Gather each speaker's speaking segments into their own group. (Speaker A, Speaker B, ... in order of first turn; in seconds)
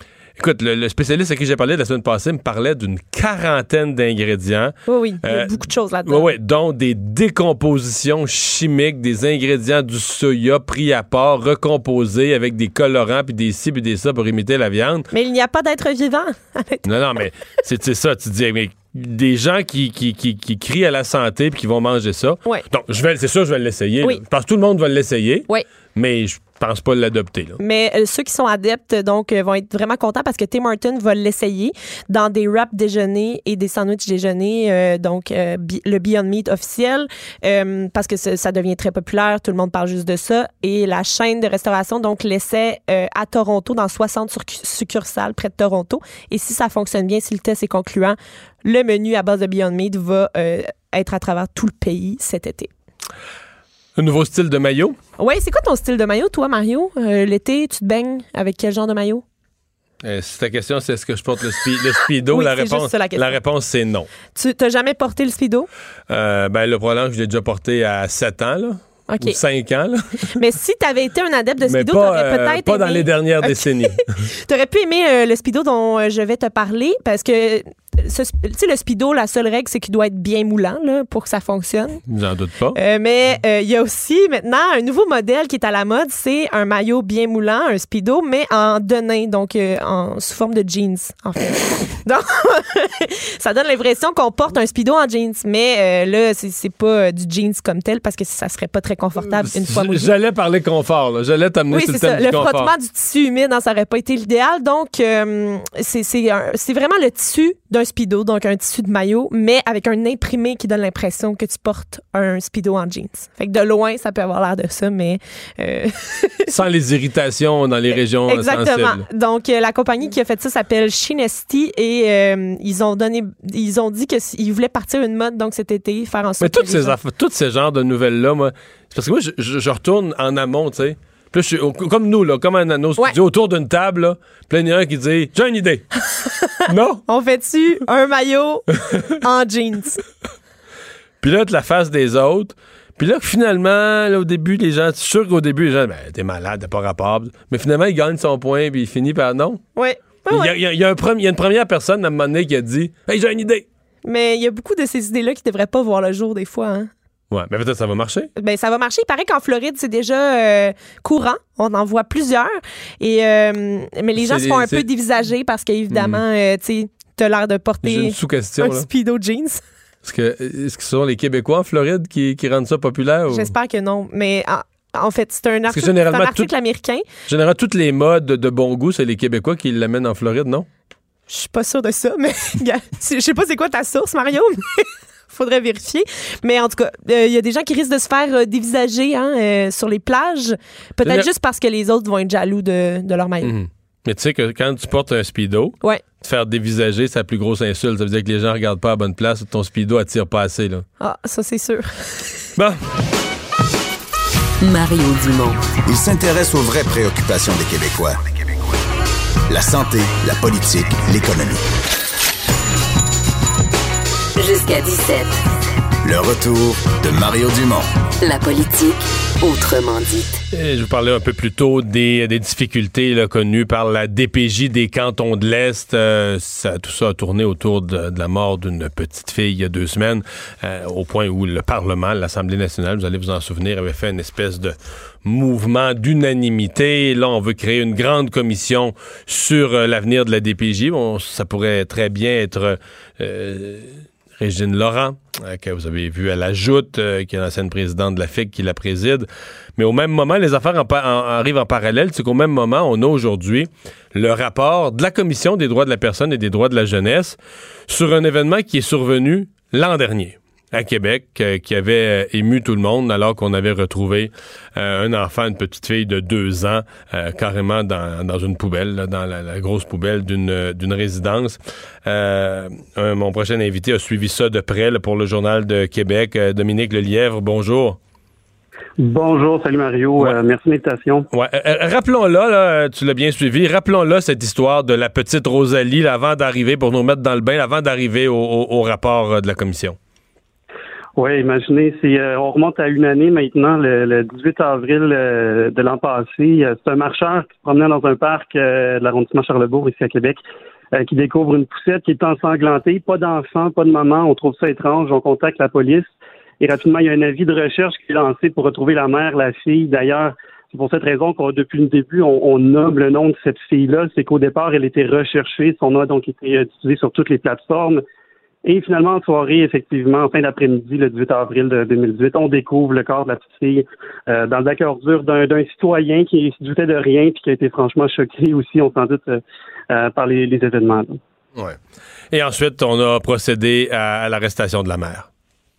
Speaker A: 0.4-5.5, 6.0-15.1, 16.9-27.6, 54.0-55.0, 60.0-64.1, 66.1-70.2, 71.7-74.2, 82.1-82.8, 99.2-102.7, 116.5-119.0, 126.4-135.9, 136.7-137.0, 141.2-149.6, 150.3-153.7, 157.3-158.3, 164.2-164.8, 165.9-166.2, 167.8-168.9, 170.0-173.5, 175.7-176.5, 177.3-180.7, 193.4-200.9, 202.6-202.8, 220.5-278.0, 281.3-290.0, 332.3-335.3
Speaker B: 4.9-6.3, 15.1-16.9, 27.6-52.7, 55.2-59.2, 62.3-63.4, 64.3-65.7, 69.1-69.4, 70.4-82.0, 82.8-100.1, 101.7-116.6, 118.3-127.0, 136.2-140.0, 149.8-150.6, 154.1-156.9, 158.4-169.6, 173.3-177.1, 181.3-193.6, 201.0-202.3
Speaker C: 204.6-205.6, 214.3-215.4, 218.2-220.4
Speaker D: 205.9-208.2, 209.5-211.7, 216.0-217.9
Speaker E: 279.0-281.3, 291.2-300.4, 301.0-306.1, 306.6-318.0, 318.6-329.4, 329.9-331.2